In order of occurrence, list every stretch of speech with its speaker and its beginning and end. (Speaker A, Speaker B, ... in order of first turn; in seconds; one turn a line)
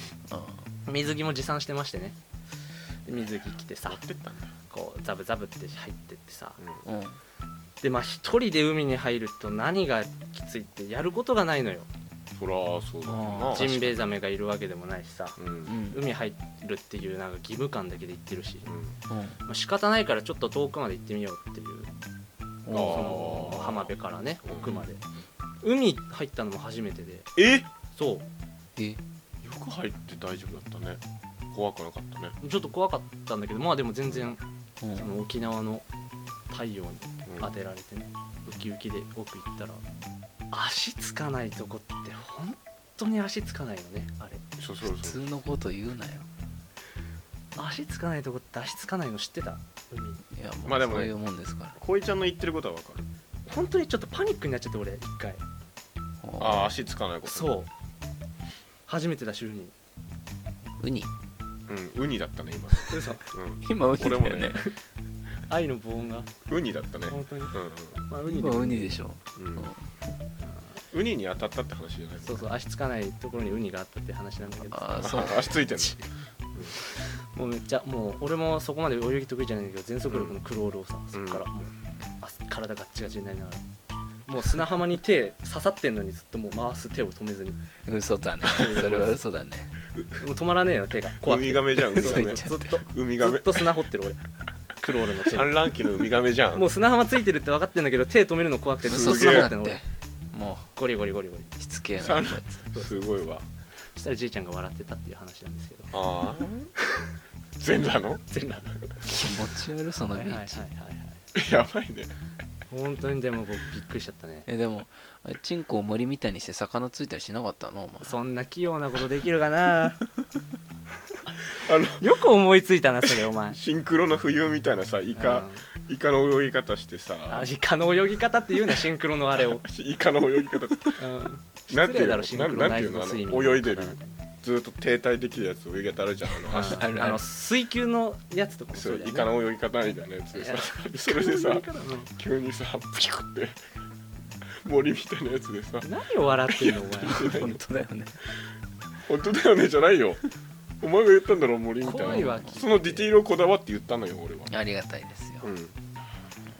Speaker A: 0.3-0.7
Speaker B: 0.8-2.1
Speaker B: 3.0-4.0
Speaker C: 3.9-4.5
Speaker B: 4.7-6.6
Speaker A: 6.8-7.2
Speaker B: 7.8-11.9
Speaker C: 12.3-13.9
Speaker A: 13.1-13.9
Speaker B: 13.5-18.7
Speaker C: 15.4-15.8
Speaker A: 15.7-16.0
Speaker C: 18.6-18.9
Speaker A: 19.1-19.4
Speaker B: 19.4-21.9
Speaker A: 22.6-23.4
Speaker C: 22.7-23.9
Speaker B: 22.8-25.0
Speaker C: 24.4-24.8
Speaker B: 25.6-27.3
Speaker C: 27.4-27.7
Speaker B: 27.9-28.2
Speaker A: 28.8-29.0
Speaker C: 29.4-31.0
Speaker C: 31.5-32.4
Speaker B: 32.4-34.4
Speaker A: 34.8-35.1
Speaker B: 35.0-35.8
Speaker B: 36.5-39.8
Speaker B: 40.5-44.4
Speaker C: 44.6-45.2
Speaker A: 44.8-46.2
Speaker B: 47.5-50.2
Speaker A: 50.3-51.7
Speaker C: 50.6-51.1
Speaker C: 51.8-53.0
Speaker B: 53.5-55.4
Speaker A: 56.2-56.8
Speaker C: 56.4-57.6
Speaker B: 57.3-57.7
Speaker B: 58.9-59.7
Speaker A: 60.8-61.1
Speaker C: 61.7-64.6
Speaker B: 62.9-63.2
Speaker A: 63.6-64.6
Speaker B: 65.5-66.3
Speaker C: 66.5-68.0
Speaker B: 67.1-69.0
Speaker A: 68.2-69.9
Speaker C: 69.3-69.7
Speaker C: 70.9-72.5
Speaker B: 72.2-75.9
Speaker A: 74.7-75.6
Speaker C: 75.0-76.7
Speaker B: 76.7-83.6
Speaker C: 80.1-80.3
Speaker C: 81.1-81.5
Speaker B: 84.2-87.6
Speaker A: 87.8-89.7
Speaker B: 88.4-89.2
Speaker B: 90.2-94.2
Speaker C: 91.2-93.7
Speaker A: 91.9-92.7
Speaker B: 94.8-95.6
Speaker C: 95.3-96.7
Speaker B: 96.5-99.8
Speaker C: 98.9-99.5
Speaker A: 98.9-100.7
Speaker B: 100.8-101.5
Speaker A: 101.6-102.6
Speaker C: 102.0-103.4
Speaker B: 102.7-103.1
Speaker B: 103.9-105.9
Speaker C: 105.9-106.7
Speaker B: 106.8-107.1
Speaker C: 107.6-108.2
Speaker B: 108.3-109.1
Speaker A: 109.0-110.6
Speaker B: 110.1-111.2
Speaker C: 111.3-112.1
Speaker B: 112.7-114.5
Speaker A: 114.5-118.2
Speaker B: 118.0-120.0
Speaker C: 121.5-122.1
Speaker B: 122.0-123.6
Speaker C: 123.5-127.5
Speaker B: 125.1-125.6
Speaker B: 127.3-129.6
Speaker C: 129.6-131.0
Speaker B: 131.0-134.1
Speaker C: 131.7-136.9
Speaker B: 136.5-139.3
Speaker A: 136.5-137.2
Speaker C: 138.7-143.6
Speaker B: 140.3-142.1
Speaker C: 144.6-145.9
Speaker B: 145.8-147.3
Speaker C: 146.5-147.6
Speaker A: 147.1-148.2
Speaker C: 149.0-150.2
Speaker C: 150.8-154.5
Speaker B: 151.8-153.1
Speaker A: 152.0-152.5
Speaker A: 154.5-155.5
Speaker C: 155.4-155.8